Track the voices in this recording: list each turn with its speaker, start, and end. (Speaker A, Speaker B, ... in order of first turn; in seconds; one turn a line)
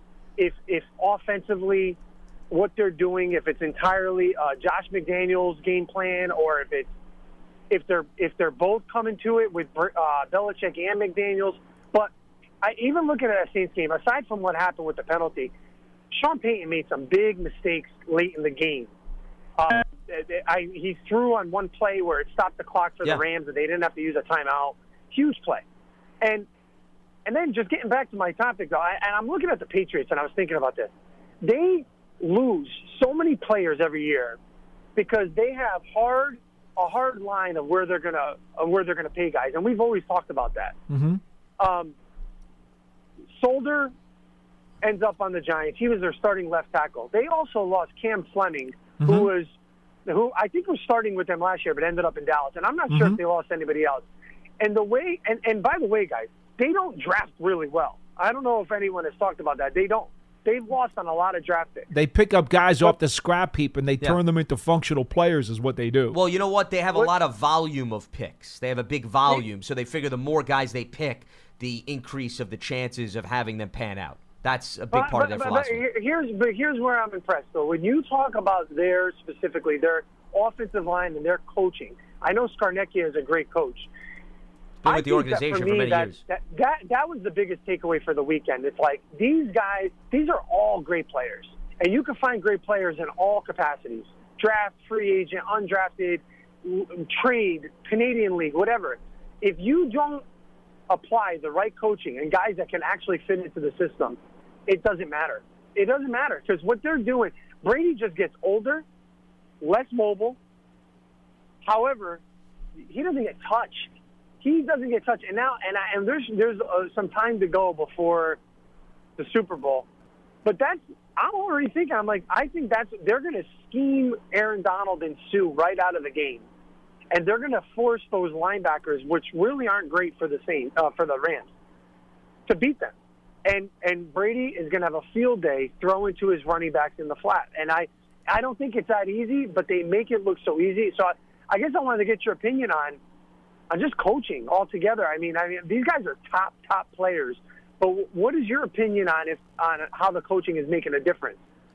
Speaker A: 0.4-2.0
Speaker A: 2.5-6.9
Speaker A: 7.7-12.1
Speaker A: 12.6-15.5
Speaker A: 16.1-18.9
Speaker A: 19.6-25.6
Speaker A: 26.2-26.4
Speaker A: 27.2-30.9
Speaker A: 31.4-34.4
Speaker A: 35.0-40.8
Speaker B: 40.9-41.2
Speaker A: 41.6-41.9
Speaker A: 43.4-43.9
Speaker A: 44.8-49.5
Speaker B: 49.0-49.3
Speaker A: 50.0-54.0
Speaker B: 52.9-53.2
Speaker A: 54.6-61.9
Speaker B: 61.9-66.2
Speaker C: 66.1-75.8
Speaker A: 74.9-83.9
Speaker C: 84.8-86.2
Speaker A: 84.8-100.2
Speaker A: 100.9-108.8
Speaker A: 109.6-110.4
Speaker A: 111.6-112.2
Speaker A: 112.8-113.9
Speaker A: 114.4-118.4
Speaker A: 119.2-119.8
Speaker A: 120.4-126.4
Speaker A: 127.1-131.5
Speaker A: 132.5-132.9
Speaker A: 133.4-143.0
Speaker A: 143.7-151.4